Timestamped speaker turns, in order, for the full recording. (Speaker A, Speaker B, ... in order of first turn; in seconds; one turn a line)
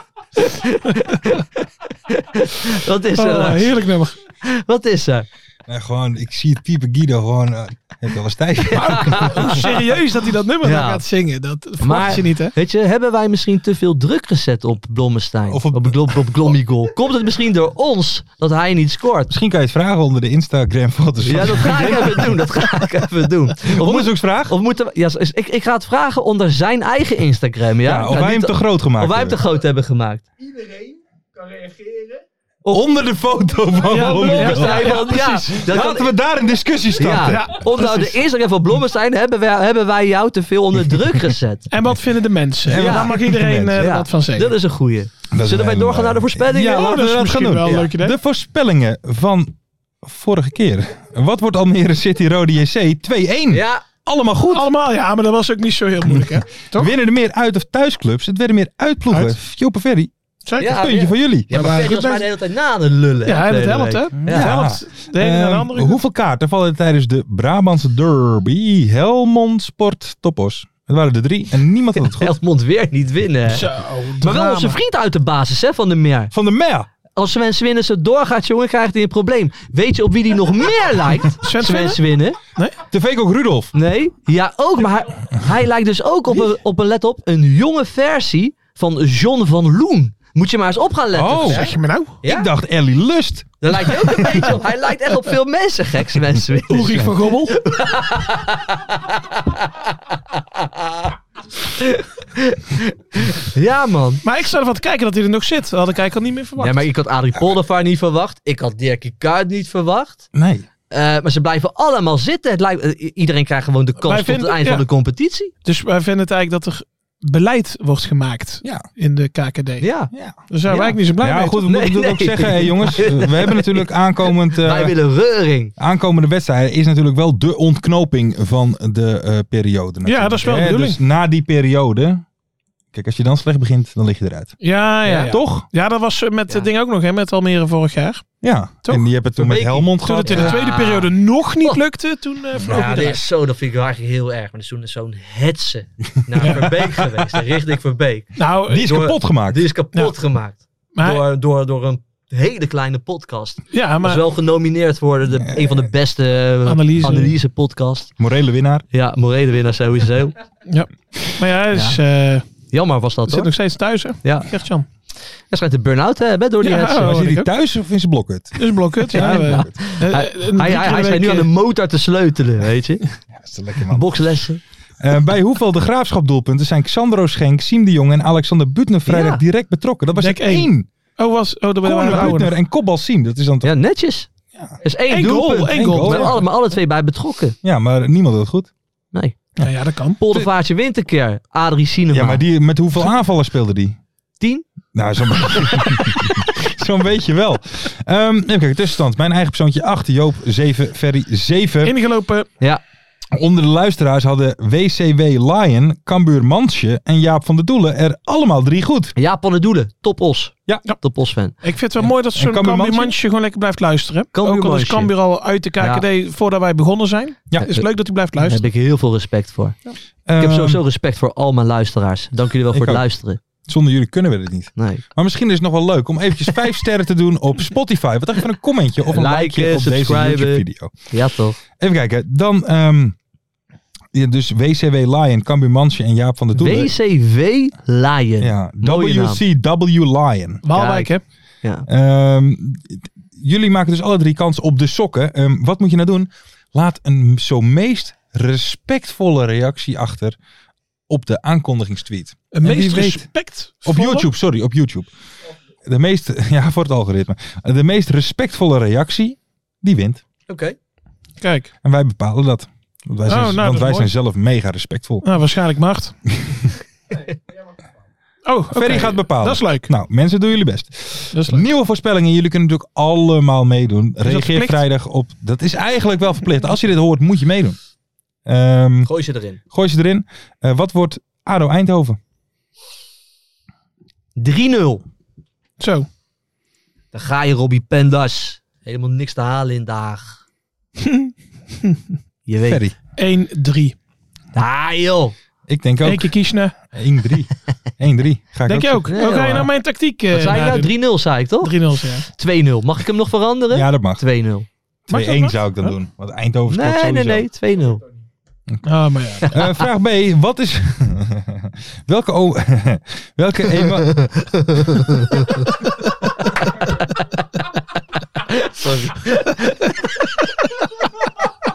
Speaker A: 0.4-3.7
Speaker B: 3.1-4.2
Speaker A: 4.4-5.2
Speaker C: 5.7-9.7
Speaker B: 8.7-12.5
Speaker A: 8.8-9.7
Speaker A: 10.6-11.0
Speaker A: 11.8-19.3
Speaker C: 15.5-16.3
Speaker C: 19.3-22.9
Speaker A: 21.2-30.3
Speaker C: 23.6-24.5
Speaker C: 27.8-29.4
Speaker C: 32.7-37.5
Speaker B: 33.9-35.5
Speaker A: 34.0-36.1
Speaker A: 37.0-41.7
Speaker B: 37.2-38.2
Speaker B: 41.7-44.5
Speaker C: 42.7-43.9
Speaker A: 42.7-43.2
Speaker A: 43.7-46.9
Speaker C: 45.3-54.7
Speaker B: 46.6-48.1
Speaker A: 53.5-53.8
Speaker B: 54.5-56.9
Speaker C: 56.7-62.0
Speaker B: 59.1-59.4
Speaker B: 60.5-60.8
Speaker A: 60.6-64.5
Speaker B: 61.5-62.2
Speaker B: 63.2-66.0
Speaker C: 64.2-72.4
Speaker A: 72.1-76.3
Speaker B: 73.5-74.8
Speaker C: 76.3-76.9
Speaker A: 77.1-82.4
Speaker B: 81.4-82.0
Speaker C: 82.9-83.7
Speaker A: 83.7-92.5
Speaker C: 91.1-91.7
Speaker B: 91.5-92.2
Speaker C: 92.2-94.4
Speaker A: 93.6-104.2
Speaker B: 96.7-97.5
Speaker B: 104.2-106.8
Speaker A: 106.6-110.3
Speaker C: 110.3-110.7
Speaker A: 110.9-115.5
Speaker B: 114.0-114.8
Speaker B: 115.6-119.9
Speaker A: 119.8-120.1
Speaker C: 120.1-120.4
Speaker B: 120.5-121.6
Speaker A: 120.7-121.0
Speaker C: 121.2-125.0
Speaker A: 121.6-123.9
Speaker A: 124.5-125.7
Speaker C: 125.8-132.2
Speaker B: 130.0-131.0
Speaker C: 132.9-134.6
Speaker B: 134.6-138.3
Speaker A: 135.0-135.3
Speaker C: 135.2-135.7
Speaker C: 138.4-140.6
Speaker B: 138.8-143.2
Speaker A: 139.5-141.1
Speaker A: 142.6-158.1
Speaker C: 146.4-147.2
Speaker B: 146.4-146.7
Speaker B: 148.4-148.9
Speaker C: 148.7-149.7
Speaker B: 150.9-151.2
Speaker B: 153.7-154.2
Speaker B: 156.7-157.3
Speaker C: 158.2-158.8
Speaker A: 158.9-160.3
Speaker B: 160.7-162.4
Speaker A: 161.7-162.0
Speaker A: 162.7-163.5
Speaker B: 163.3-164.8
Speaker A: 164.2-164.5
Speaker A: 165.5-167.2
Speaker B: 166.6-167.5
Speaker C: 167.0-169.7
Speaker B: 168.6-171.5
Speaker A: 169.1-173.0
Speaker C: 173.3-174.4
Speaker A: 173.9-174.6
Speaker C: 175.0-180.9
Speaker A: 179.1-179.4
Speaker B: 180.2-182.6
Speaker C: 181.8-183.7
Speaker A: 183.6-184.3
Speaker A: 184.8-187.6
Speaker B: 185.1-186.4
Speaker C: 185.7-186.4
Speaker C: 187.6-188.7
Speaker A: 189.1-189.5
Speaker B: 189.6-190.2
Speaker A: 190.2-192.4
Speaker C: 192.1-194.0
Speaker A: 194.4-194.7
Speaker C: 194.9-201.9
Speaker A: 195.4-196.0
Speaker B: 201.8-202.5
Speaker C: 203.3-209.1
Speaker A: 209.2-211.5
Speaker B: 211.6-218.6
Speaker C: 212.0-213.1
Speaker A: 214.3-215.1
Speaker A: 215.8-216.0
Speaker A: 218.4-219.8
Speaker C: 220.2-220.8
Speaker A: 220.4-223.4
Speaker C: 222.7-223.0
Speaker C: 223.6-230.9
Speaker A: 224.8-225.0
Speaker A: 229.1-231.6
Speaker C: 231.8-233.2
Speaker C: 234.1-236.9
Speaker A: 236.6-239.4
Speaker C: 238.4-240.6
Speaker B: 240.6-241.2
Speaker A: 240.7-241.8
Speaker C: 241.9-250.4
Speaker C: 251.1-253.3
Speaker B: 252.5-254.3
Speaker C: 253.8-255.1
Speaker C: 255.8-260.2
Speaker A: 260.5-260.8
Speaker B: 261.4-261.7
Speaker C: 261.8-265.2
Speaker B: 263.2-264.1
Speaker B: 265.2-266.1
Speaker B: 268.4-269.9
Speaker C: 268.7-277.8
Speaker B: 271.3-271.6
Speaker B: 274.2-274.8
Speaker C: 278.4-279.1
Speaker A: 279.1-279.6
Speaker C: 279.7-282.2
Speaker A: 284.4-285.0
Speaker B: 285.8-286.1
Speaker A: 287.1-290.4
Speaker B: 291.0-291.3
Speaker A: 292.4-292.8
Speaker C: 292.6-292.9
Speaker B: 293.2-293.9
Speaker A: 294.5-295.3
Speaker C: 295.7-296.3
Speaker B: 296.0-296.7
Speaker C: 296.9-299.6
Speaker B: 298.6-301.0
Speaker A: 299.1-299.7
Speaker A: 300.3-304.7
Speaker B: 301.6-302.3
Speaker C: 303.7-304.2
Speaker C: 305.1-307.4
Speaker B: 305.1-305.9
Speaker A: 306.7-308.0
Speaker B: 308.8-309.5
Speaker A: 309.4-309.7
Speaker C: 309.5-315.0
Speaker A: 313.8-315.7
Speaker A: 318.4-320.1